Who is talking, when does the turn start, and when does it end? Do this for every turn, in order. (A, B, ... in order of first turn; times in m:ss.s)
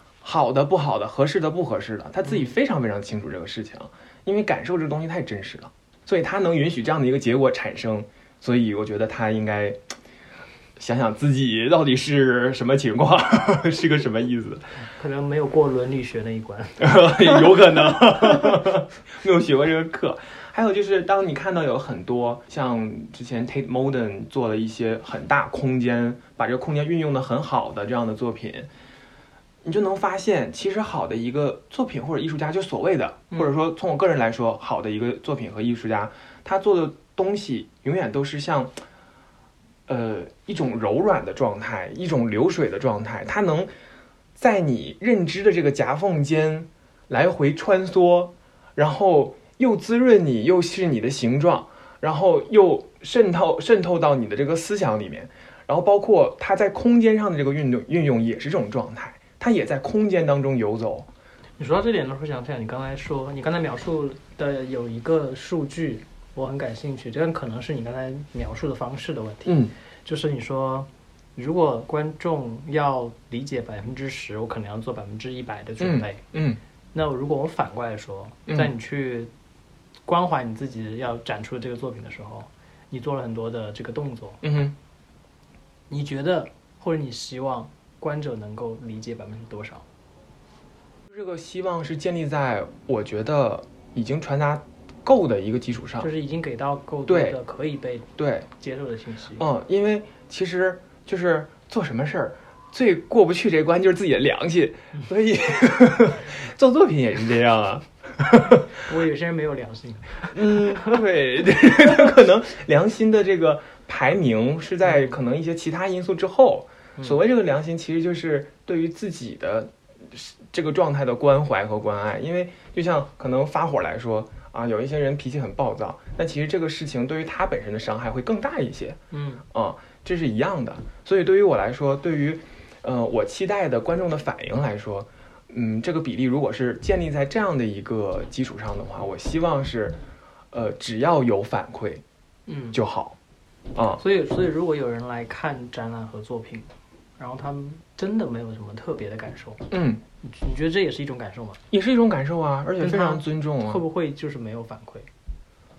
0:00.2-0:09.8 A
0:02.2-0:02.6 B
0:10.8-0:14.6 A
0:14.9-0:17.6 B
0:16.8-0:28.7 A
0:29.6-0:38.8 A
0:39.9-0:43.7 A
0:44.4-1:01.1 A
1:01.6-1:16.2 B
1:09.4-1:09.7 A
1:15.8-1:16.6 A
1:16.9-1:19.3 B
1:18.5-1:18.7 A
1:20.1-1:24.4 B
1:24.4-1:24.8 A
1:25.9-1:29.8 B
1:31.1-1:36.1 A
1:36.0-1:39.5 B
1:37.1-1:37.4 A
1:38.2-1:38.5 A
1:39.4-1:48.7 A
1:48.7-1:51.0 B
1:50.3-2:09.0 A
1:54.8-1:55.1 B
2:09.1-2:09.4 B
2:09.5-2:20.0 A
2:20.5-2:22.0 A
2:22.5-2:22.8 B
2:22.7-2:23.2 A
2:23.8-2:24.0 A
2:24.0-2:29.7 B
2:29.7-2:30.0 A
2:30.2-2:31.6 B
2:31.7-2:33.8 A
2:32.8-2:35.1 B